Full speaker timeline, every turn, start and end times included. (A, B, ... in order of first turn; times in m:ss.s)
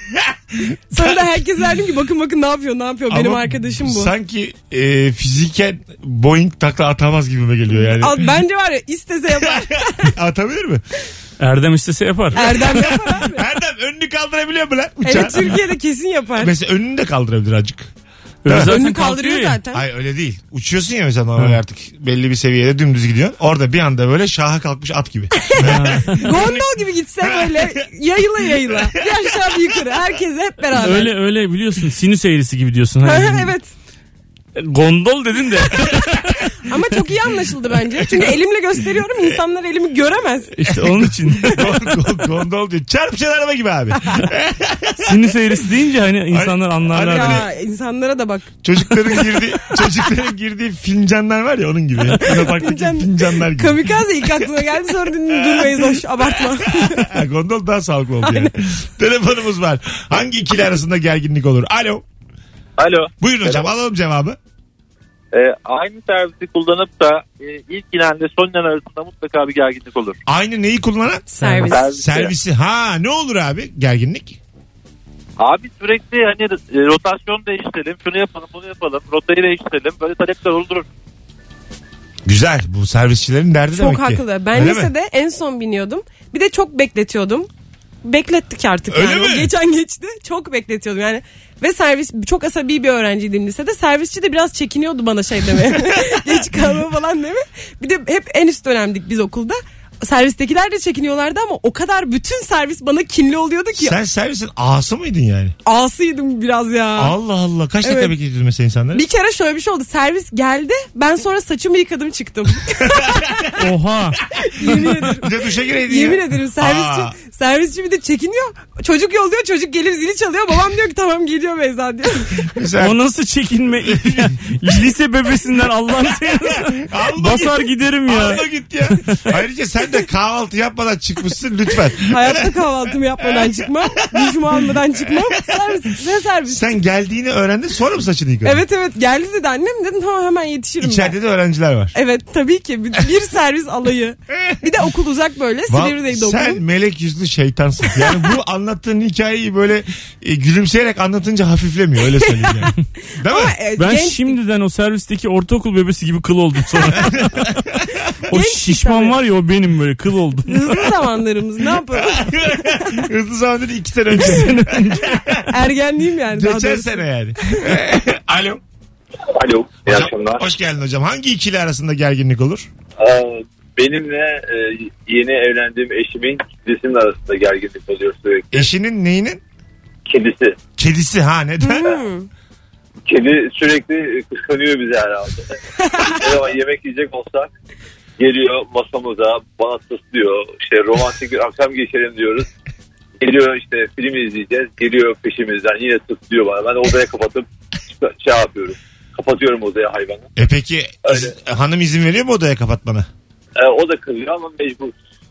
0:00.1-0:01.4 A
0:00.9-0:04.1 B
0:03.1-0:08.3 A
0:07.9-0:10.1 B
0:09.3-0:10.8 A
0:11.4-0:12.9 C
0:12.3-0:13.4 B
0:12.4-0:15.6 A
0:15.0-0:16.5 B
0:16.4-0:17.9 A
0:18.4-0:19.6 C
0:18.4-0:18.7 A
0:18.5-0:19.8 B
0:19.7-0:26.6 A
0:25.4-0:31.1 B
0:25.6-0:26.2 C
0:27.2-0:27.7 A
0:28.4-0:29.6 A
0:30.7-0:33.5 C
0:33.0-0:33.7 B
0:34.6-0:36.5 C
0:36.6-0:40.6 B
0:40.5-0:41.6 C
0:40.7-0:45.3 A
0:45.0-0:47.4 C
0:46.3-0:47.5 A
0:47.0-0:49.8 B
0:48.6-1:02.0 A
0:52.1-0:57.1 B
0:58.2-0:58.5 B
1:02.8-1:03.7 D
1:03.2-1:04.4 A
1:05.3-1:10.2 D
1:10.3-1:14.4 A
1:11.3-1:11.8 B
1:11.7-1:12.3 D
1:15.4-1:20.9 D
1:22.2-1:24.9 A
1:23.7-1:27.5 B
1:28.0-1:44.0 B
1:28.9-1:29.5 A
1:35.8-1:36.4 A
1:43.8-1:45.5 A
1:45.6-1:47.1 B
1:47.0-1:49.0 A
1:47.8-1:48.1 B
1:48.9-1:53.4 B
1:52.8-1:53.6 A
1:53.6-1:54.2 C
1:54.5-1:55.3 B
1:54.6-1:57.1 A
1:55.8-2:02.5 B
2:02.5-2:03.0 A
2:02.8-2:08.4 C
2:03.8-2:04.3 A
2:06.3-2:12.5 A
2:12.0-2:16.7 B
2:13.2-2:15.8 A
2:16.5-2:18.6 A
2:18.4-2:21.2 B
2:20.8-2:21.9 A
2:21.9-2:26.6 B
2:24.3-2:24.6 A
2:25.7-2:33.6 A
2:32.2-2:34.4 B
2:33.8-2:37.5 C
2:38.3-2:40.8 C
2:38.3-2:39.2 B
2:40.5-2:42.3 B
2:41.9-2:45.5 A
2:44.2-2:45.2 C
2:45.5-2:47.6 B
2:46.3-2:48.6 A
2:49.3-2:50.5 E
2:49.9-2:52.7 A
2:53.0-2:58.7 E
2:58.5-2:59.4 A
3:00.0-3:00.6 E
3:00.8-3:02.0 A
3:01.6-3:02.3 B
3:03.1-3:07.5 E
3:08.2-3:12.5 E
3:13.2-3:20.3 E
3:20.4-3:23.1 A
3:21.1-3:21.3 E
3:23.6-3:24.9 E